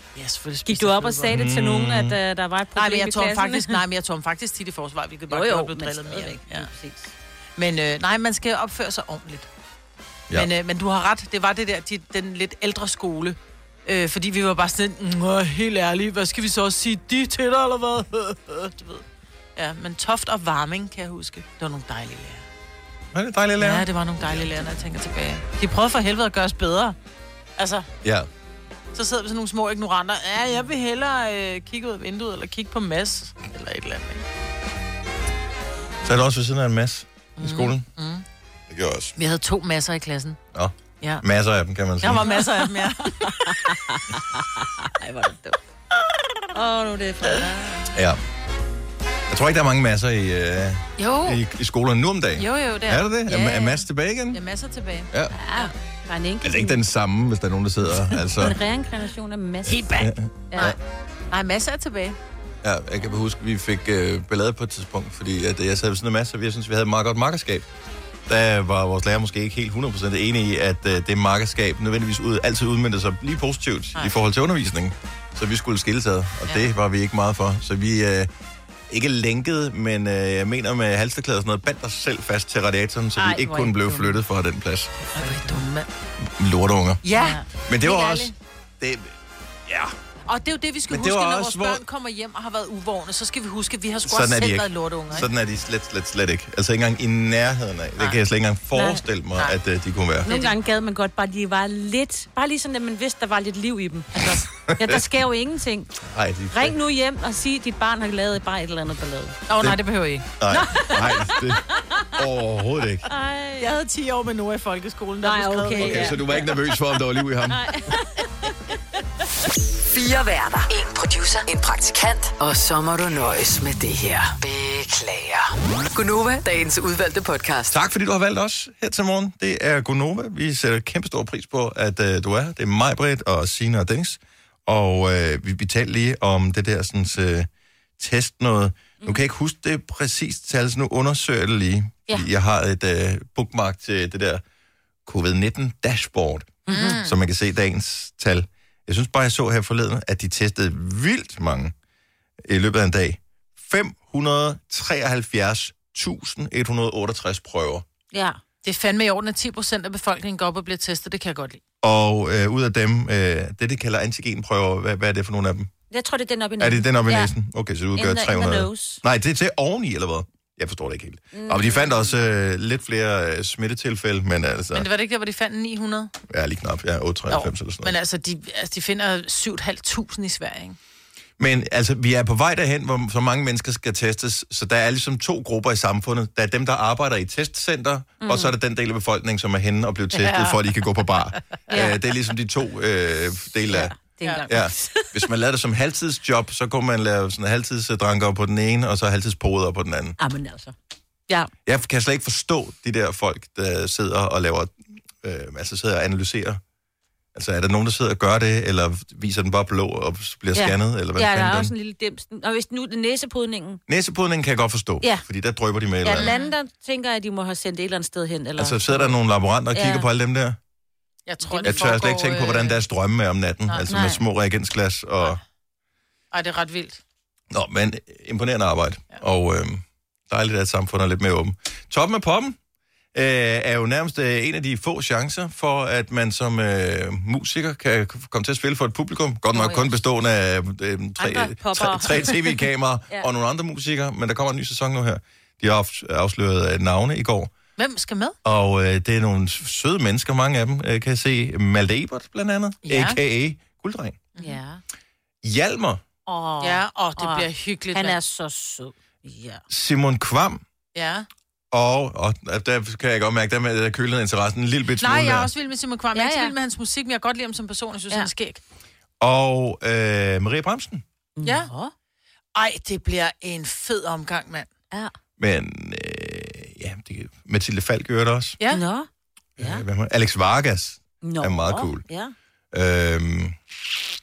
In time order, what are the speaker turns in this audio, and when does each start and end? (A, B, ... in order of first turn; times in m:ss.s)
0:00.1-0:01.4 A
0:00.6-0:03.8 B
0:01.3-0:02.2 C
0:02.7-0:06.7 A
0:05.3-0:07.1 B
0:07.6-0:09.5 A
0:10.3-0:19.0 A
0:19.6-0:22.4 A
0:23.1-0:24.4 C
0:23.6-0:27.0 A
0:27.6-0:27.9 A
0:28.0-0:28.3 C
0:28.9-0:34.2 A
0:36.0-0:37.8 C
0:37.4-0:38.2 A
0:38.7-0:39.1 C
0:39.2-0:40.4 A
0:40.5-0:42.3 C
0:42.0-0:43.5 A
0:43.3-0:45.6 B
0:46.5-0:47.9 B
0:47.9-0:48.2 C
0:49.3-0:54.4 C
0:51.0-0:51.4 A
0:52.4-0:55.7 A
0:55.3-0:56.8 B
0:56.4-0:58.6 C
0:58.4-1:00.0 B
0:59.7-1:00.8 A
0:59.9-1:00.8 C
1:01.3-1:02.2 A
1:02.6-1:07.7 C
1:08.3-1:18.3 C
1:18.9-1:25.0 C
1:23.2-1:24.2 B
1:25.1-1:25.9 A
1:26.2-1:27.0 C
1:27.0-1:28.3 A
1:27.6-1:29.1 C
1:29.6-1:29.9 C
1:30.2-1:35.3 A
1:30.9-1:31.8 C
1:34.1-1:40.3 C
1:38.7-1:39.0 B
1:40.2-1:40.6 A
1:40.2-1:46.0 B
1:44.7-1:45.0 C
1:46.0-1:46.8 C
1:46.5-1:49.4 B
1:49.5-1:50.3 A
1:50.4-1:51.6 C
1:50.5-1:50.9 B
1:52.2-1:53.1 C
1:53.1-1:53.7 B
1:53.6-1:56.5 A
1:55.2-1:56.2 B
1:55.8-1:57.6 C
1:57.5-1:58.5 B
1:59.8-2:07.8 D
2:07.7-2:17.5 C
2:18.0-2:24.4 C
2:25.0-2:31.7 C
2:26.7-2:27.0 B
2:26.7-2:27.2 A
2:32.4-2:37.8 C
2:38.1-2:38.4 B
2:38.6-2:41.6 A
2:41.8-2:45.7 C
2:45.9-2:47.3 B
2:46.6-2:54.9 C
2:48.0-2:49.0 B
2:51.3-2:52.1 B
2:54.7-2:56.1 A
2:56.3-2:58.0 C
2:57.3-3:00.8 A
3:01.4-3:13.9 C
3:08.2-3:08.5 B
3:10.1-3:10.8 A
3:11.7-3:12.0 B
3:13.7-3:15.1 B
3:14.5-3:20.2 C
3:20.2-3:20.7 B
3:21.6-3:26.6 C
3:27.3-3:31.7 C
3:30.5-3:33.8 B
3:33.9-3:36.3 C
3:36.0-3:39.2 B
3:36.2-3:36.5 A
3:38.6-3:40.6 C
3:39.7-3:40.1 B
3:41.3-3:42.8 A
3:41.4-3:41.9 B
3:41.6-3:45.4 C
3:43.6-3:43.9 A
3:43.9-3:44.2 B
3:46.3-3:47.0 A
3:47.5-3:52.6 C
3:53.1-4:07.5 C
3:59.5-3:59.9 B
4:01.2-4:03.3 B
4:07.8-4:08.4 A
4:08.4-4:14.2 C
4:12.8-4:13.2 A
4:14.3-4:14.6 A
4:14.4-4:14.8 B
4:15.4-4:16.0 C
4:16.2-4:19.6 B
4:16.6-4:18.2 A
4:19.7-4:20.6 C
4:20.9-4:21.3 A
4:21.7-4:25.5 C
4:25.0-4:28.6 A
4:26.1-4:26.5 B
4:29.2-4:31.0 C
4:31.4-4:31.9 B
4:31.4-4:31.7 A
4:32.5-4:34.7 A
4:35.4-4:38.6 C
4:38.6-4:38.8 A
4:38.7-4:39.1 B
4:39.6-4:42.0 C
4:39.6-4:39.8 B
4:41.2-4:42.3 B
4:42.7-4:43.6 C